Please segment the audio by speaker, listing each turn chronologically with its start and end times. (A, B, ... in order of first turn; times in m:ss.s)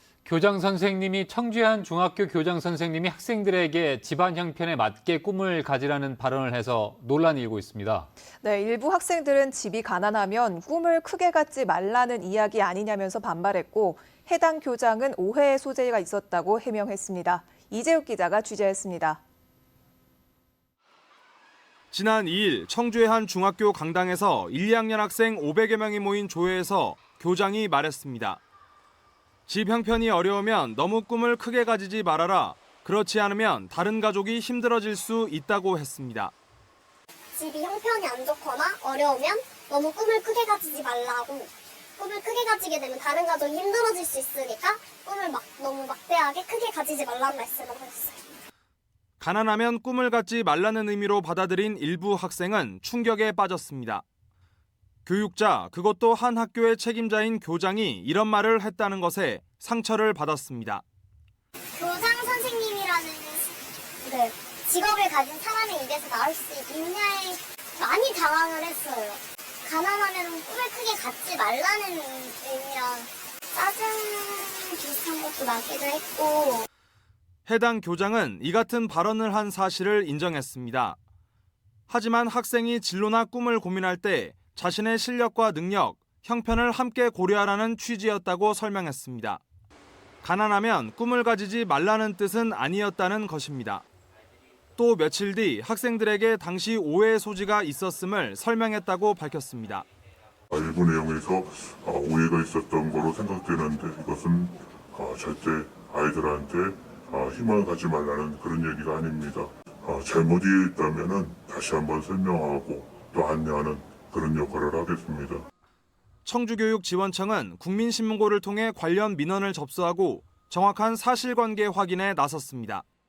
0:00.2-0:08.1 A
0:08.4-0:19.2 B
0:21.9-0:28.4 C
0:29.5-0:36.3 C
0:37.4-0:48.2 D
0:49.2-0:54.0 C
0:55.0-1:00.8 C
1:01.8-1:03.5 D
1:04.0-1:16.6 D
1:17.5-1:21.0 C
1:21.9-1:29.4 C
1:30.2-1:33.8 C
1:34.8-1:39.8 C
1:40.5-1:55.4 E
1:56.2-2:02.8 C